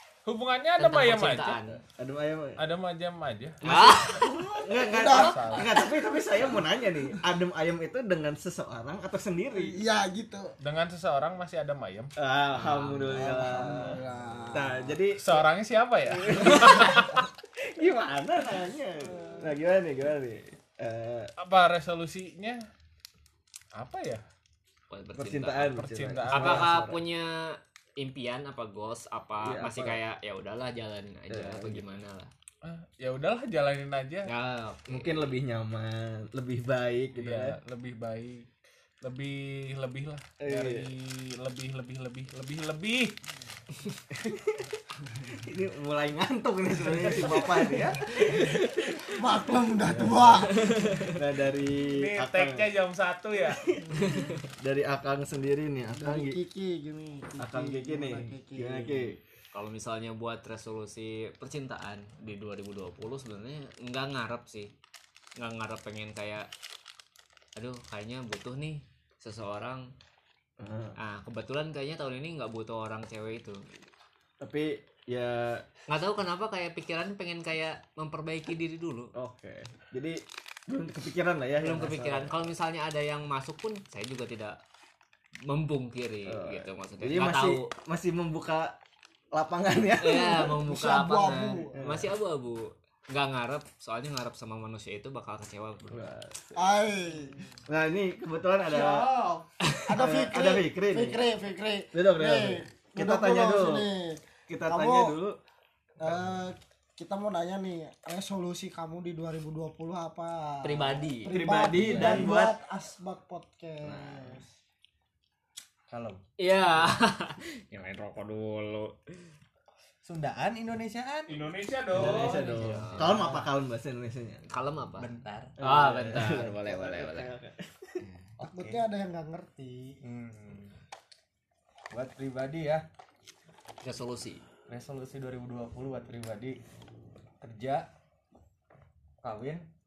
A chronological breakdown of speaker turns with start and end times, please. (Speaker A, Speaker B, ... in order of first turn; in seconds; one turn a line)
Speaker A: 0.2-1.6
Speaker B: 0.8-1.8
Speaker C: 1.9-2.6
Speaker A: 2.6-3.6
Speaker C: 3.6-9.8
Speaker B: 3.6-4.3
Speaker D: 4.7-5.9
Speaker A: 5.1-5.7
Speaker D: 9.5-10.5
Speaker A: 10.6-12.1
Speaker C: 12.2-14.0
Speaker B: 12.5-13.5
Speaker D: 13.1-14.9
Speaker C: 14.5-15.4
Speaker A: 15.2-17.2
Speaker C: 16.1-21.3
Speaker A: 21.4-22.7
Speaker A: 23.7-24.2
Speaker B: 24.9-32.3
Speaker C: 25.1-27.0
Speaker A: 25.7-26.7
Speaker C: 29.4-30.0
Speaker C: 31.3-31.8
Speaker A: 32.6-34.3
Speaker B: 34.2-35.2
Speaker C: 34.9-37.6
Speaker A: 37.1-38.5
Speaker A: 39.0-43.2
Speaker C: 40.4-40.9
Speaker C: 44.1-44.7
Speaker C: 45.3-49.0
Speaker A: 47.3-47.8
Speaker D: 49.0-50.8
Speaker C: 49.8-50.4
Speaker B: 50.5-51.2
Speaker C: 51.1-52.7
Speaker A: 51.8-53.6
Speaker C: 53.5-56.4
Speaker B: 54.0-54.3
Speaker D: 56.0-59.1
Speaker C: 57.4-59.2
Speaker B: 59.5-64.7
Speaker B: 65.4-66.5
Speaker B: 67.5-69.9
Speaker C: 70.6-71.0
Speaker B: 71.0-73.6
Speaker C: 74.4-75.7
Speaker B: 75.9-79.1
Speaker C: 79.1-82.4
Speaker B: 81.6-84.6
Speaker B: 85.5-87.7
Speaker C: 86.2-88.8
Speaker C: 89.3-90.5
Speaker B: 90.0-96.1
Speaker D: 90.1-91.8
Speaker C: 91.8-92.1
Speaker C: 95.9-96.6
Speaker D: 96.5-97.5
Speaker C: 97.7-99.2
Speaker A: 98.7-99.4
Speaker D: 99.8-105.1
Speaker C: 99.9-101.2
Speaker C: 101.9-103.9
Speaker C: 104.5-105.4
Speaker D: 106.0-114.5
Speaker B: 110.6-111.4
Speaker C: 111.2-112.6
Speaker E: 111.8-112.2
Speaker C: 113.8-114.4
Speaker E: 115.9-116.2
Speaker B: 116.4-119.1
Speaker E: 120.0-121.4
Speaker A: 121.3-122.7
Speaker E: 121.9-123.2
Speaker C: 121.9-124.5
Speaker B: 122.4-123.4
Speaker B: 124.5-125.1
Speaker E: 125.0-125.5
Speaker C: 125.6-128.1
Speaker B: 125.6-127.3
Speaker E: 128.4-128.8
Speaker D: 128.4-130.0
Speaker E: 130.0-130.8
Speaker E: 131.9-132.8
Speaker B: 133.8-134.4
Speaker E: 134.7-136.6
Speaker E: 137.4-137.9
Speaker E: 139.2-139.7